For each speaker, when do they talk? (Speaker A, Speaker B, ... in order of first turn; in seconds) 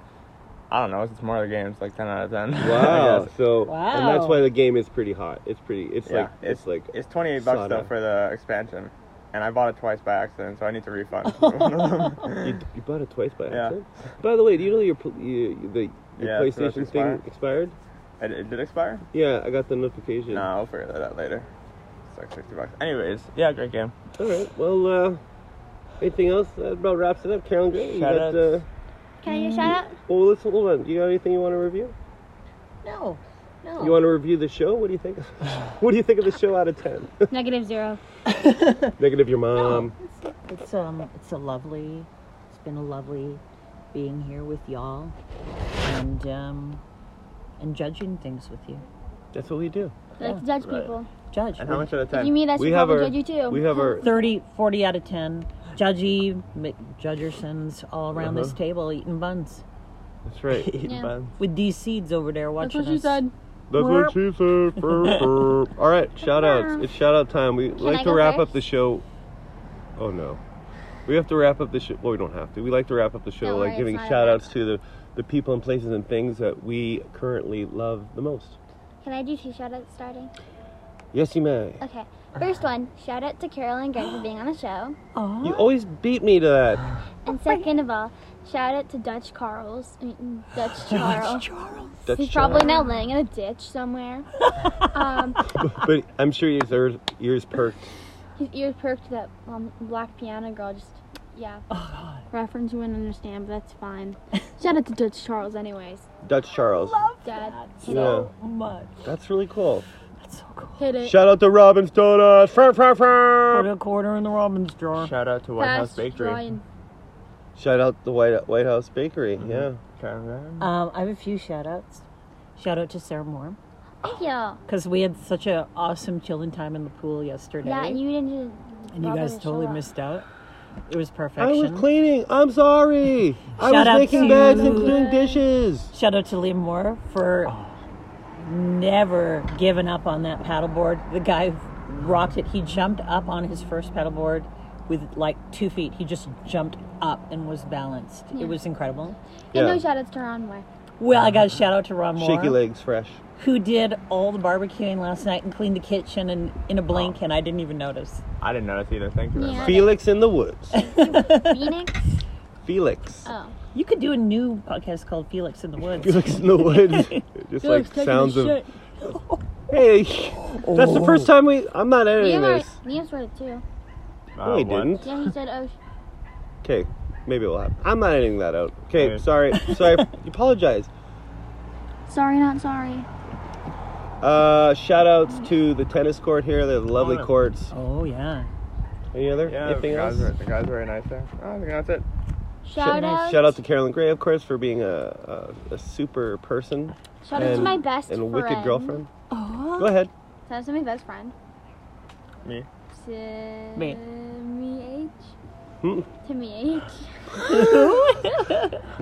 Speaker A: 0.7-3.3, 6.1-12.6, 13.5-13.8, 16.2-17.2, 18.2-19.0, 20.3-21.5, 22.1-24.0, 27.8-28.5, 50.6-50.9, 51.6-52.4, 60.5-61.3, 114.9-116.4, 119.4-120.7, 158.4-159.9, 174.3-175.1, 178.9-179.2, 187.0-187.3, 189.4-192.0
Speaker B: 2.6-7.9, 12.4-17.8, 19.1-20.5, 24.2-25.2, 26.0-28.6, 30.1-31.9, 33.8-37.3, 39.0-39.9, 49.3-49.9, 52.5-54.1, 58.1-58.5, 60.2-60.7, 63.7-69.0, 70.0-70.4, 71.0-78.6, 81.1-81.8, 85.4-86.8, 92.0-92.8, 95.6-97.9, 106.2-107.0, 107.8-108.3, 109.0-109.8, 111.0-113.7, 117.5-119.8, 131.4-135.9, 149.5-149.8, 152.2-153.2, 159.6-160.8, 162.6-163.3, 166.0-168.7, 169.7-172.8, 174.4-175.1, 176.6-180.9, 184.2-187.7, 189.1-190.3, 192.8-199.1, 199.8-200.1, 205.8-206.1
Speaker C: 3.7-4.5, 11.3-12.2, 29.2-29.8, 32.8-34.0, 38.3-38.9, 39.5-39.9, 40.5-43.4, 43.9-45.1, 45.8-46.8, 47.6-48.9, 50.2-50.4, 51.3-51.9, 53.9-59.6, 61.4-63.2, 63.8-64.1, 64.8-65.2, 85.1-85.7, 87.3-87.7, 90.9-92.0, 101.7-102.3, 106.6-109.0, 110.2-110.9, 113.5-115.1, 120.6-122.0, 122.5-123.6, 124.7-128.0, 128.9-130.3, 130.9-131.9, 133.6-135.1, 135.9-137.6, 138.4-149.2, 151.0-152.6, 153.4-158.2, 160.7-161.7, 163.7-167.3, 169.0-169.4, 170.5-171.3, 179.5-179.9, 187.7-188.5, 192.8-193.4, 199.3-199.9, 203.8-204.0, 207.4-208.7
Speaker D: 29.2-29.9, 37.3-38.0, 50.2-51.1, 52.1-54.0, 60.8-61.1, 62.6-63.3, 66.2-66.9, 67.8-68.6, 73.4-74.4, 79.0-80.3, 81.8-85.0, 87.2-91.5, 92.1-95.5, 98.3-101.7, 102.3-106.1, 107.2-108.3, 110.8-111.2, 115.6-116.6, 124.0-124.6, 127.6-129.9, 134.1-135.4, 149.5-150.7, 159.3-160.0, 160.9-162.0, 163.2-163.5, 167.6-168.7, 172.2-173.6, 175.0-175.8, 182.1-183.1, 192.6-193.5, 197.2-199.0, 200.4-201.3, 202.9-205.3, 206.2-208.3